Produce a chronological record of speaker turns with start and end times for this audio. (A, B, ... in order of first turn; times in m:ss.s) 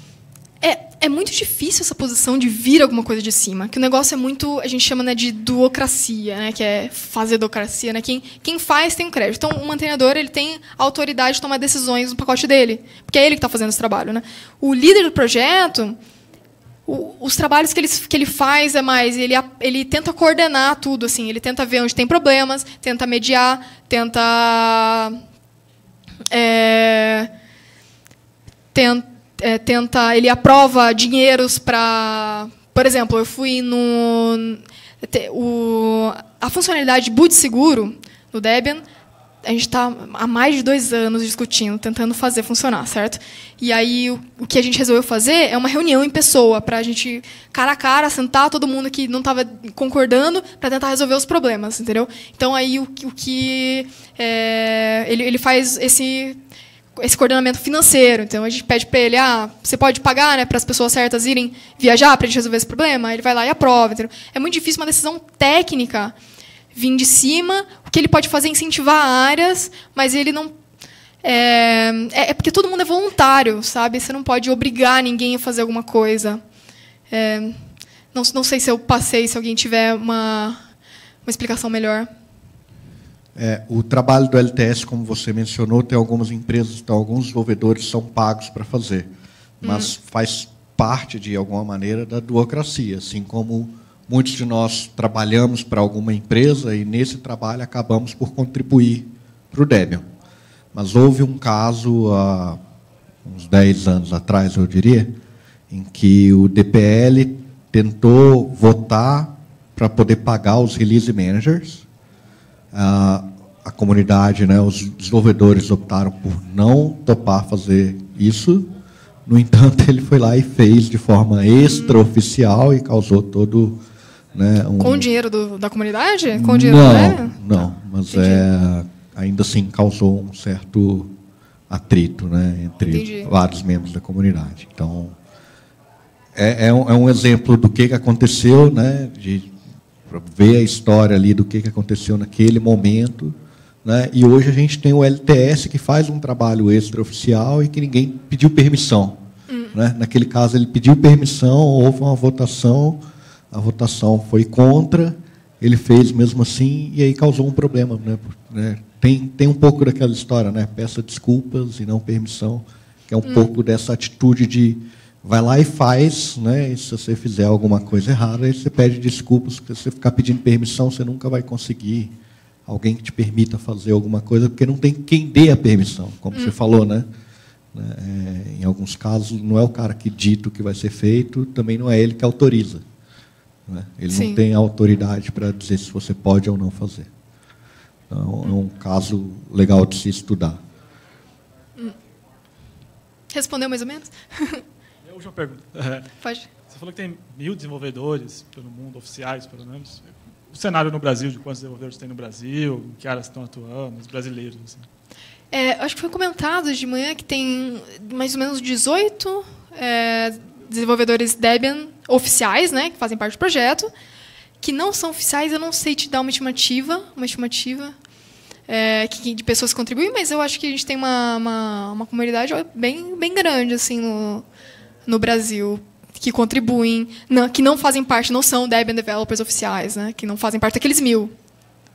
0:00.6-0:16.0 A
0:16.9-0:25.2 A
0:26.3-0:27.3 A
0:28.7-0:38.8 A
0:39.4-0:56.4 A
0:57.0-1:06.1 A
1:06.7-1:10.5 A
1:11.2-1:16.4 A
1:17.1-1:17.6 A
1:18.1-1:20.6 A
1:21.2-1:22.1 A
1:23.4-1:29.1 B
1:29.6-1:40.1 B
1:29.6-1:29.9 A
1:40.7-1:42.6 B
1:43.2-1:45.1 B
1:45.7-1:51.8 B
1:52.7-1:58.7 B
1:59.3-2:03.8 B
2:01.6-2:02.0 A
2:04.3-2:05.1 B
2:04.8-2:08.4 A
2:06.3-2:11.1 B
2:11.7-2:15.2 B
2:12.9-2:13.3 A
2:16.4-2:19.5 B
2:20.1-2:33.0 B
2:29.5-2:29.8 A
2:33.5-2:52.1 B
2:43.2-2:43.5 A
2:52.7-2:57.1 B
2:57.7-3:02.8 B
3:03.7-3:07.1 B
3:04.1-3:04.4 A
3:08.1-3:10.6 B
3:13.3-3:14.6 A
3:15.0-3:16.1 C
3:16.2-3:16.5 A
3:16.7-3:24.9 C
3:25.5-3:33.9 A
3:34.6-3:38.0 A
3:38.7-3:44.4 A
3:45.1-3:51.3 A